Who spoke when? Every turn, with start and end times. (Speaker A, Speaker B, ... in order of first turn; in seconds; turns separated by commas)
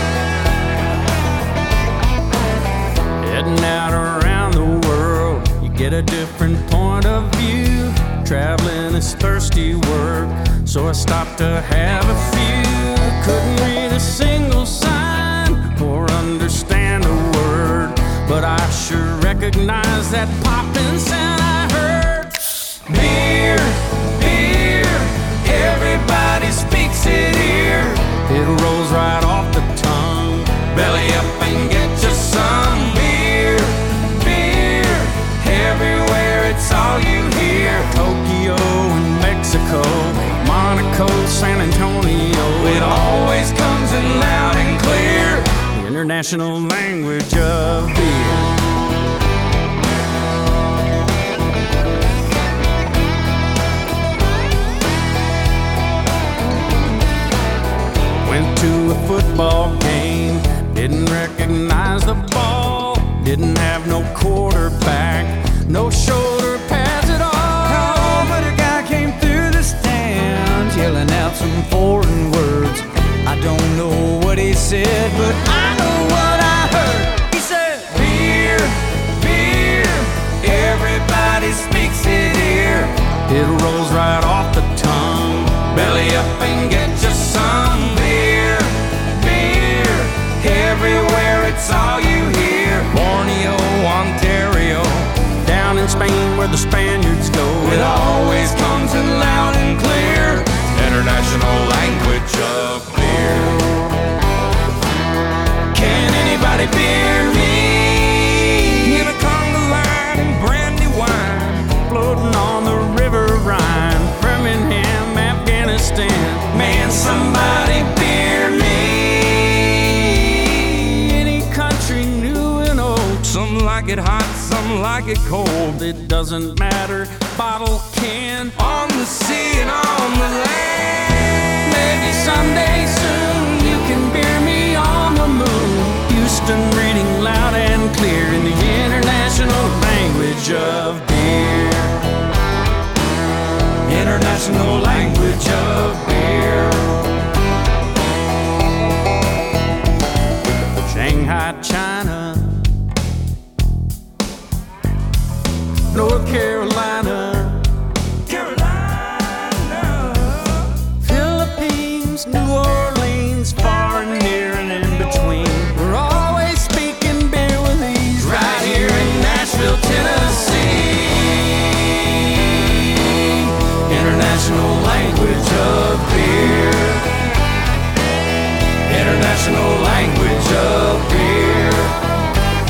Speaker A: 3.2-48.5, Speaker A: 58.2-103.6, Speaker A: 105.7-142.0, Speaker A: 143.9-146.9, Speaker A: 150.8-152.6, Speaker A: 155.9-157.7, Speaker A: 158.3-171.8, Speaker A: 173.9-177.1, Speaker A: 178.9-182.0